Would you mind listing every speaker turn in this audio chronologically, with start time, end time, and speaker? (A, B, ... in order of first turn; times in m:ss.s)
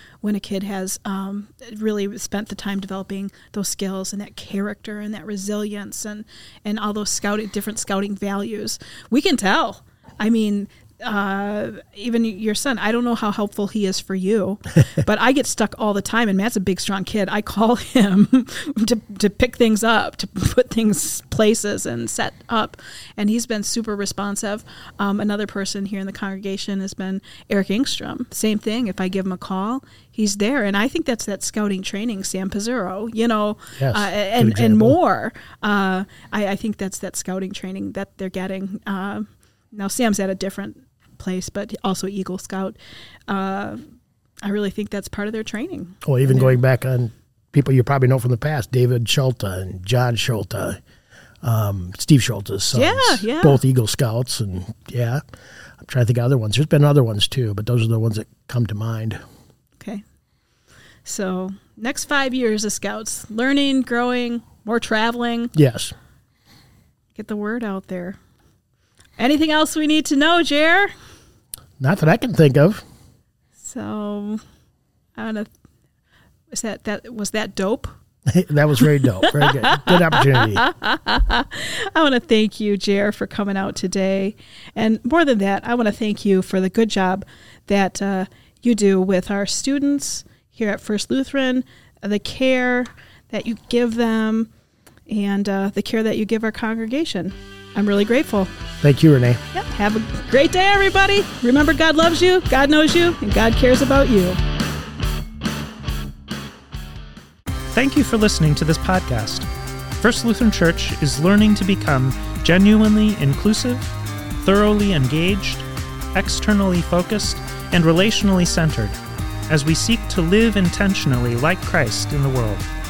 0:00.2-0:43.8 A
0:33.8-0:35.0 B
0:44.4-0:46.6 A
0:46.0-0:50.8 B
0:51.4-0:55.2 B
0:52.7-0:53.6 A
0:55.8-0:59.2 B
1:01.0-1:05.5 A
1:05.5-1:05.9 B
1:07.1-1:08.2 A
1:09.2-1:10.9 A
1:11.8-1:12.8 B
1:13.6-1:14.4 A
1:15.2-1:15.5 A
1:16.5-1:17.9 A
1:18.3-1:20.6 B
1:19.2-1:34.5 A
1:35.1-1:38.5 A
1:38.8-1:39.4 B
1:39.5-1:44.4 A
1:47.7-1:49.5 C
1:50.0-1:59.0 C
1:59.5-2:02.6 C